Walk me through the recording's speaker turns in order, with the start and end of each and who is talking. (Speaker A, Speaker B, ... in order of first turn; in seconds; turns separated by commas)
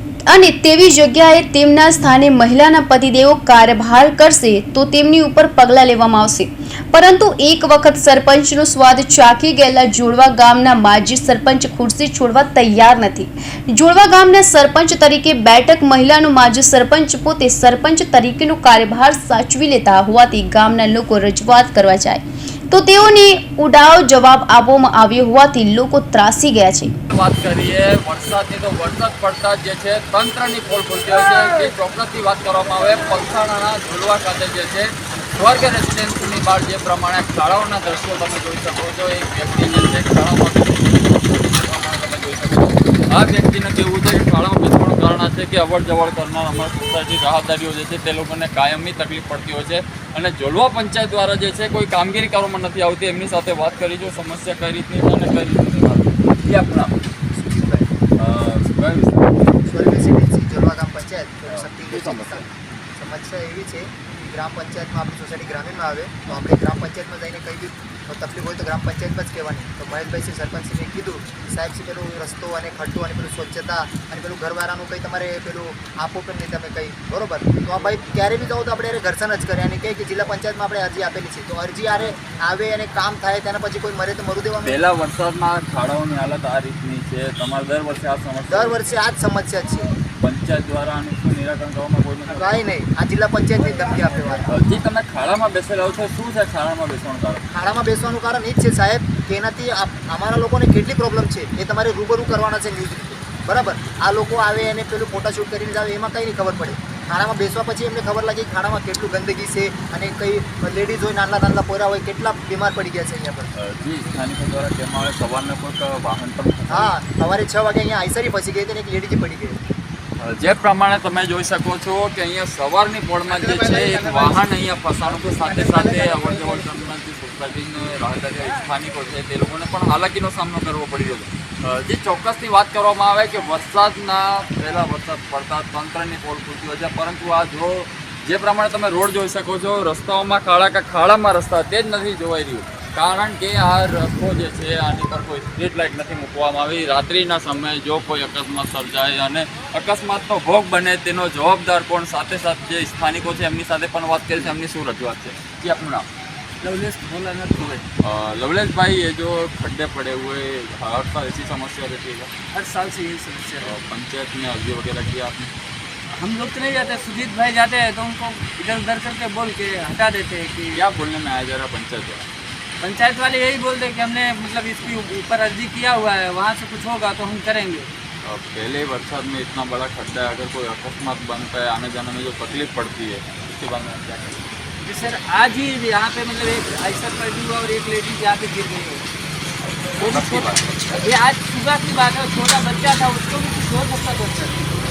Speaker A: 0.3-26.9, Speaker B: 27.1-56.9, Speaker C: 57.3-57.9, Speaker B: 58.2-59.3, Speaker C: 59.7-84.8, Speaker B: 61.5-62.5, Speaker B: 84.6-88.8, Speaker C: 88.5-89.9, Speaker B: 90.2-92.7, Speaker C: 92.3-94.5, Speaker B: 94.5-97.5, Speaker C: 97.5-113.5, Speaker B: 113.5-116.9, Speaker C: 116.7-119.6, Speaker B: 120.2-156.1, Speaker C: 123.3-124.4, Speaker C: 125.0-126.6, Speaker D: 156.6-157.8, Speaker B: 158.0-162.3, Speaker D: 162.5-163.8, Speaker B: 163.6-165.5, Speaker D: 166.2-170.8, Speaker B: 170.7-172.3, Speaker D: 172.8-177.9, Speaker B: 178.2-184.4, Speaker D: 184.8-189.1, Speaker D: 190.0-194.7, Speaker B: 190.0-191.0